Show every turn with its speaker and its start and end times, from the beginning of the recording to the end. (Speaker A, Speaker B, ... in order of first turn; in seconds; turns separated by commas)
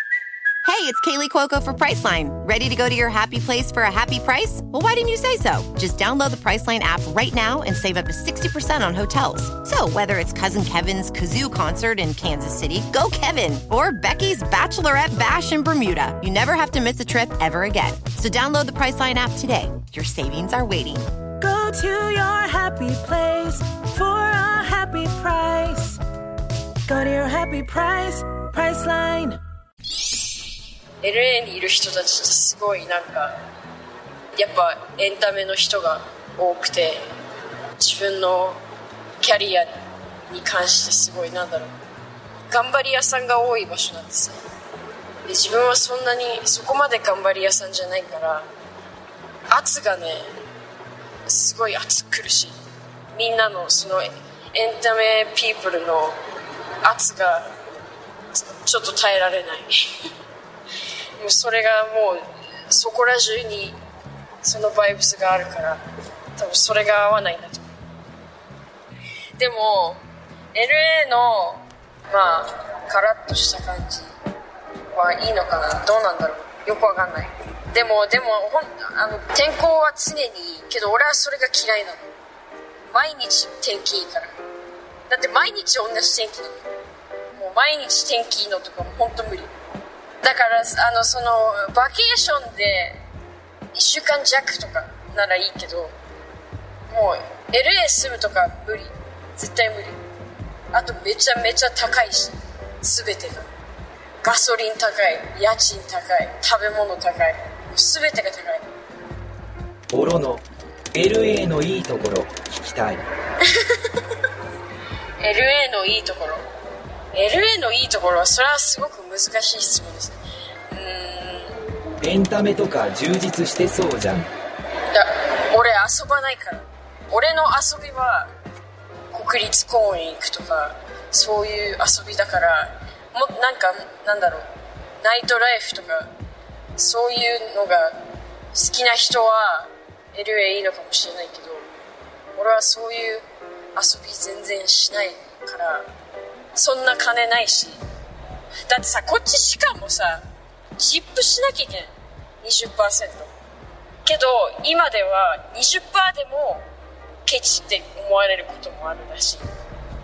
Speaker A: 0.7-21.1, Speaker B: 21.4-26.0, Speaker B: 26.9-29.4, Speaker C: 31.0-33.4, Speaker C: 34.4-37.0, Speaker C: 37.8-38.6, Speaker C: 39.2-39.7, Speaker C: 40.3-41.7, Speaker C: 42.5-44.4, Speaker C: 45.3-48.5, Speaker C: 49.5-50.3, Speaker C: 51.3-52.6, Speaker C: 53.1-56.2, Speaker C: 56.8-57.5, Speaker C: 58.4-60.1, Speaker C: 61.2-63.8, Speaker C: 64.4-65.8, Speaker C: 66.4-67.7, Speaker C: 69.4-74.1, Speaker C: 74.9-82.1, Speaker C: 82.9-84.3, Speaker C: 85.1-86.6, Speaker C: 87.3-89.5, Speaker C: 90.2-93.0, Speaker C: 93.7-96.0, Speaker C: 96.9-100.0, Speaker C: 100.7-103.5, Speaker C: 104.2-108.7, Speaker D: 109.9-110.4, Speaker D: 110.9-113.0, Speaker C: 113.5-113.8, Speaker C: 115.2-116.4, Speaker C: 117.1-120.2, Speaker C: 120.7-121.6, Speaker D: 122.0-124.3, Speaker C: 124.9-128.3, Speaker C: 129.1-134.5, Speaker C: 135.0-136.1, Speaker C: 136.8-138.0, Speaker C: 138.5-141.7, Speaker C: 142.4-145.9, Speaker C: 146.6-147.8, Speaker C: 148.7-150.2, Speaker C: 150.8-153.3, Speaker C: 154.1-156.7, Speaker C: 157.2-159.4